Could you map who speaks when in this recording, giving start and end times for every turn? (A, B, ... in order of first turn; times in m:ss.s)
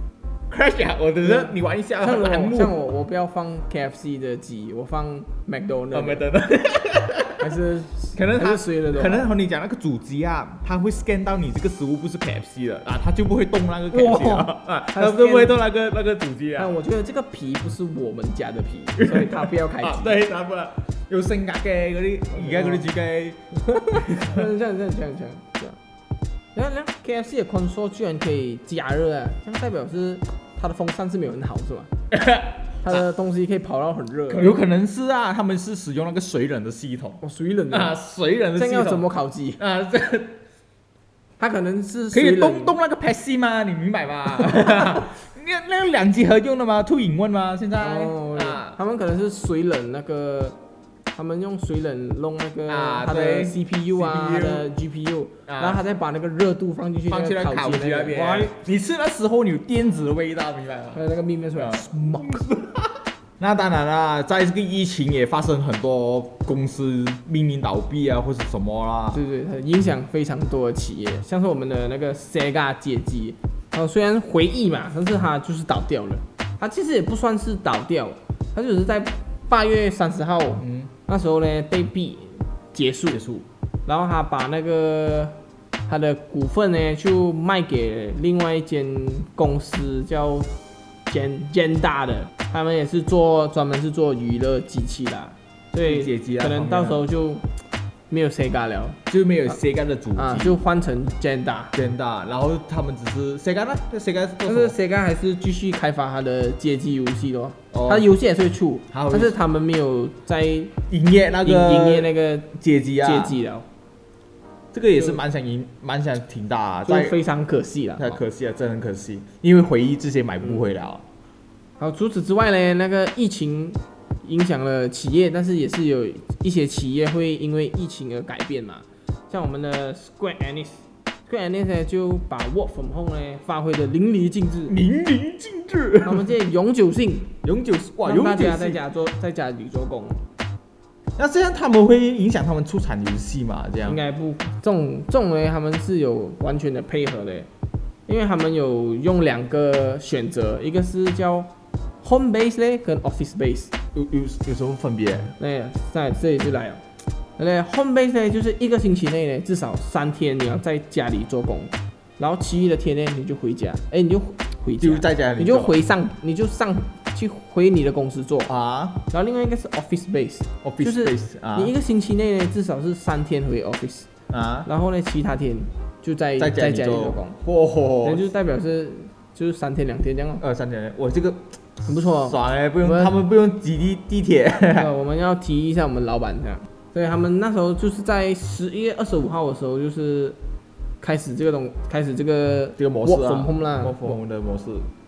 0:00.5-0:02.8 A
0:01.2-0:06.2 B
0:05.9-0:07.6 A
0:07.4-0:09.3 B
0:08.1-0:16.7 A
0:13.9-0:15.6 B
0:16.6-0:20.2 B
0:19.0-0:24.4 A
0:22.3-0:22.9 B
0:23.6-0:25.8 B
0:26.5-0:31.9 B
0:32.1-0:33.0 A
0:32.8-0:34.6 B
0:34.3-0:39.1 A
0:37.2-0:38.0 B
0:38.6-0:39.6 B
0:39.6-0:40.4 A
0:41.4-0:42.8 B
0:42.1-0:48.8 A
0:47.8-0:50.6 B
0:51.1-0:58.5 B
0:52.7-0:54.7 A
0:55.5-0:55.8 A
0:57.1-1:01.0 A
1:00.9-1:02.4 B
1:01.6-1:09.2 A
1:09.1-1:23.2 B
1:20.6-1:20.9 A
1:23.1-1:23.4 A
1:23.8-1:30.5 B
1:31.1-1:37.4 B
1:35.8-1:37.0 A
1:38.1-1:39.6 B
1:39.1-1:40.6 A
1:40.1-1:41.7 B
1:41.7-1:44.7 A
1:44.4-1:50.8 B
1:47.7-1:48.1 A
1:48.9-1:49.4 A
1:50.9-1:53.4 A
1:51.4-1:53.7 B
1:54.7-1:57.2 A
1:56.8-1:58.2 B
1:58.0-2:01.0 A
2:01.8-2:14.8 B
2:14.7-2:16.3 A
2:16.0-2:17.4 B
2:17.4-2:18.8 A
2:18.0-2:20.2 B
2:21.2-2:24.0 A
2:23.8-2:27.5 B
2:28.1-2:31.5 B
2:32.0-2:33.7 B
2:33.9-2:35.3 A
2:35.4-2:36.8 B
2:37.4-2:48.5 B
2:44.8-2:45.8 A
2:48.5-2:49.0 A
2:49.1-2:54.1 B
2:50.6-2:51.7 A
2:54.3-2:54.7 A
2:54.6-2:57.4 B
2:56.4-2:58.3 A
2:58.0-3:00.4 B
3:00.4-3:04.9 A
3:01.9-3:03.1 B
3:04.7-3:10.4 B
3:11.0-3:14.2 B
3:12.8-3:14.9 A